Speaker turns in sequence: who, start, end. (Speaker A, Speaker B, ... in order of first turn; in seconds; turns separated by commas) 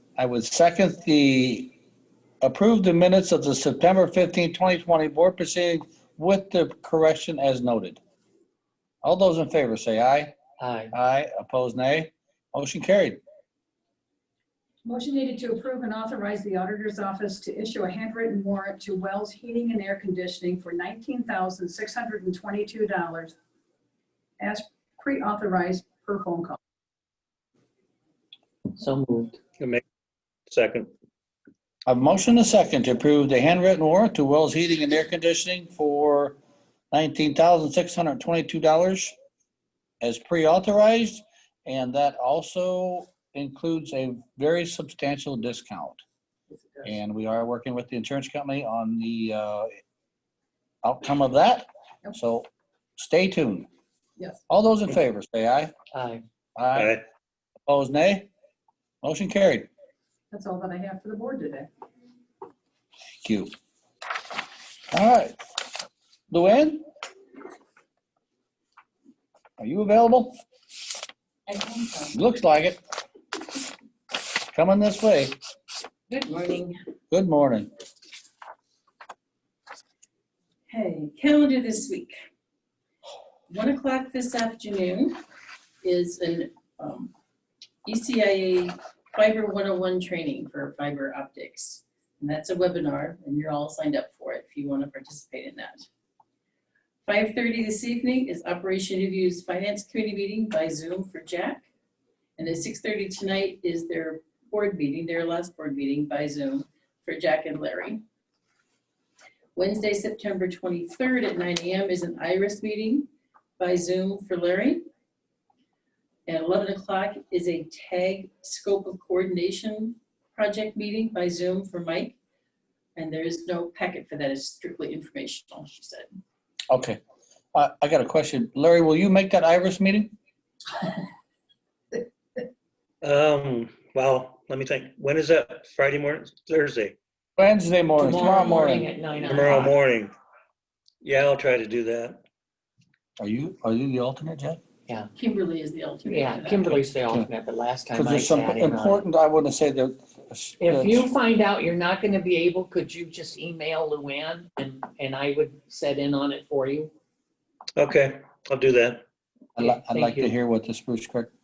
Speaker A: 0.2-1.7, Speaker A: 2.4-8.0, Speaker A: 9.0-10.3, Speaker B: 10.6-10.9, Speaker A: 10.9-13.2, Speaker C: 14.8-23.3, Speaker C: 24.4-26.6, Speaker B: 28.8-29.4, Speaker D: 30.5-30.9, Speaker A: 31.9-36.4, Speaker A: 36.9-39.1, Speaker A: 40.0-46.0, Speaker C: 46.5-46.9, Speaker A: 46.8-49.7, Speaker A: 50.8-52.5, Speaker A: 53.0-53.7, Speaker A: 54.5-55.7, Speaker B: 55.9-56.2, Speaker A: 56.5-56.9, Speaker D: 56.8-57.0, Speaker A: 57.7-58.3, Speaker A: 59.0-59.7, Speaker C: 60.3-61.7, Speaker A: 63.2-63.5, Speaker A: 64.9-65.3, Speaker A: 66.3-66.8, Speaker A: 69.6-70.3, Speaker E: 71.5-72.1, Speaker A: 72.1-72.8, Speaker A: 74.5-75.4, Speaker E: 76.1-76.8, Speaker A: 77.1-77.7, Speaker E: 80.7-82.1, Speaker E: 83.5-85.2, Speaker E: 85.8-87.1, Speaker E: 87.8-95.9, Speaker E: 97.0-101.7, Speaker E: 102.4-108.0, Speaker E: 109.5-113.1, Speaker E: 113.6-114.8, Speaker E: 116.3-122.2, Speaker E: 123.0-126.1, Speaker A: 126.7-127.0, Speaker A: 127.5-130.1, Speaker D: 133.0-136.9, Speaker A: 137.4-138.9, Speaker B: 138.0-139.7, Speaker D: 139.2-140.1, Speaker D: 141.0-142.2, Speaker A: 143.2-144.6, Speaker E: 145.2-146.9, Speaker B: 146.0-149.0, Speaker A: 146.7-147.3, Speaker A: 147.9-151.1, Speaker B: 150.6-156.9, Speaker D: 157.8-159.0, Speaker A: 159.6-161.3, Speaker B: 159.6-160.3